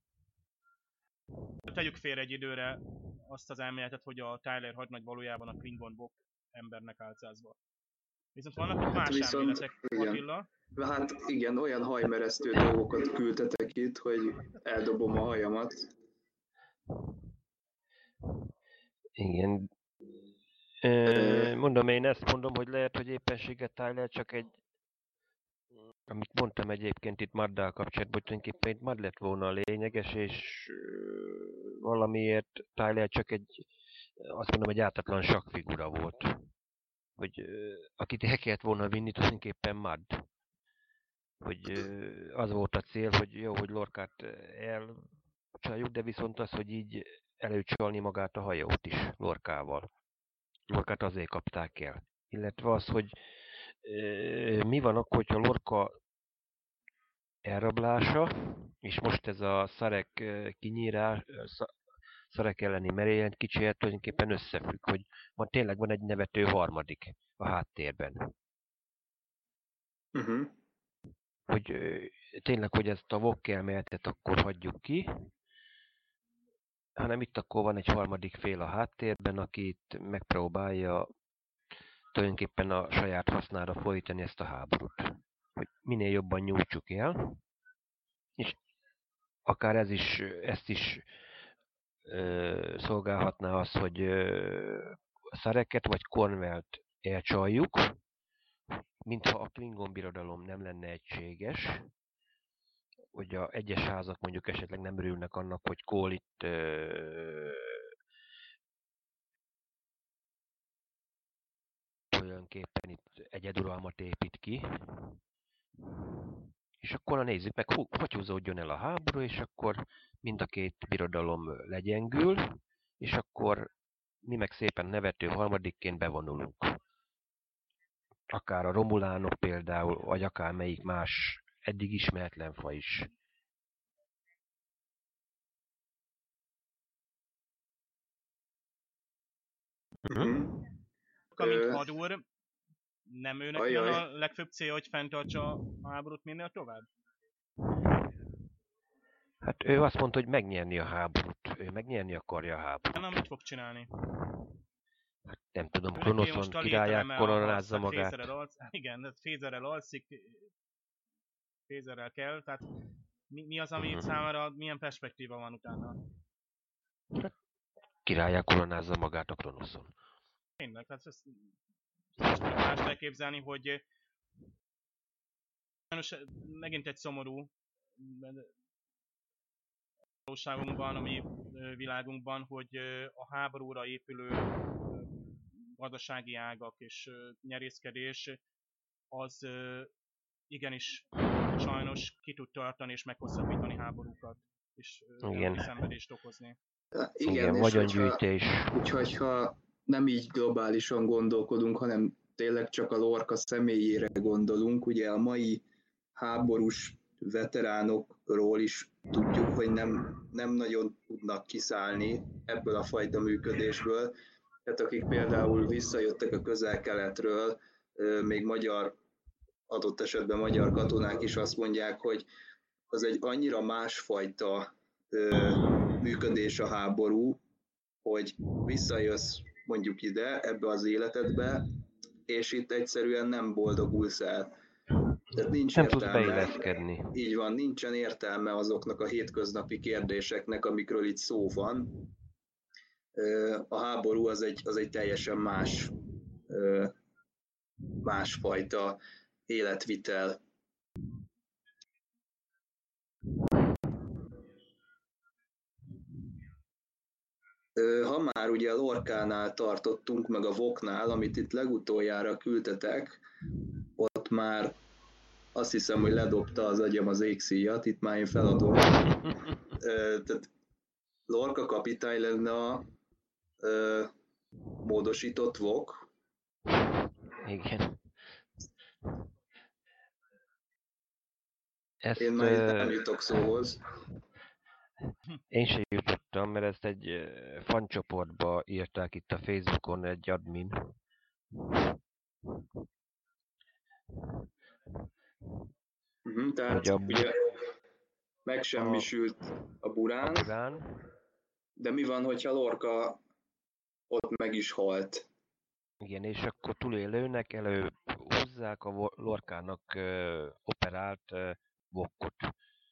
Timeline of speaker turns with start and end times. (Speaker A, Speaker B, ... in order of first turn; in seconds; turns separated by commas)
Speaker A: 1.7-7.6, Speaker A: 8.3-10.5, Speaker B: 8.9-10.2, Speaker B: 10.8-15.9, Speaker C: 19.2-19.7, Speaker C: 20.8-24.6, Speaker B: 21.1-21.5, Speaker C: 26.1-33.7, Speaker C: 34.2-36.5, Speaker C: 37.2-40.3, Speaker C: 41.4-49.9, Speaker C: 50.7-53.2, Speaker C: 53.8-56.0, Speaker C: 57.5-61.7, Speaker C: 62.3-68.3, Speaker B: 70.2-70.5, Speaker C: 71.5-75.3, Speaker C: 77.0-81.1, Speaker C: 82.1-87.4, Speaker C: 89.5-91.1, Speaker C: 92.0-98.0, Speaker C: 99.0-101.9, Speaker C: 103.1-107.9, Speaker C: 112.1-115.2, Speaker C: 116.0-123.7, Speaker C: 124.2-126.8, Speaker C: 128.3-133.1, Speaker B: 140.1-140.6, Speaker A: 141.4-142.2, Speaker B: 141.4-141.8, Speaker A: 143.1-146.9, Speaker B: 143.6-144.0, Speaker C: 149.4-153.2, Speaker A: 152.9-153.9, Speaker C: 155.3-158.3, Speaker A: 155.9-160.5, Speaker A: 161.7-162.7, Speaker A: 163.3-166.0, Speaker C: 163.8-164.1, Speaker C: 168.1-169.9, Speaker A: 170.6-171.5, Speaker A: 172.2-173.8, Speaker A: 175.9-178.5, Speaker A: 180.3-185.1, Speaker A: 185.7-188.4, Speaker A: 189.1-189.9, Speaker A: 190.5-196.6, Speaker C: 195.2-195.7, Speaker B: 196.9-205.6, Speaker C: 197.3-198.8, Speaker B: 206.2-214.1, Speaker B: 214.7-218.9, Speaker B: 219.7-222.3, Speaker B: 222.9-227.4, Speaker B: 228.0-231.7, Speaker B: 232.3-234.5, Speaker B: 235.3-241.9, Speaker C: 235.7-237.1, Speaker B: 243.2-245.9, Speaker B: 246.5-246.9, Speaker B: 248.0-250.4, Speaker B: 257.8-263.2, Speaker B: 264.0-264.8, Speaker B: 265.5-268.9, Speaker B: 269.7-270.5, Speaker B: 271.3-272.9, Speaker B: 273.6-274.1, Speaker B: 274.8-276.1, Speaker C: 277.4-278.0, Speaker C: 282.0-283.0, Speaker B: 282.2-283.8, Speaker C: 285.5-290.9, Speaker C: 291.6-291.9, Speaker B: 296.2-297.5, Speaker C: 296.7-297.3, Speaker B: 298.5-300.5, Speaker C: 298.8-299.1, Speaker C: 300.2-301.1, Speaker B: 301.8-303.2, Speaker B: 304.1-305.3, Speaker C: 306.0-312.5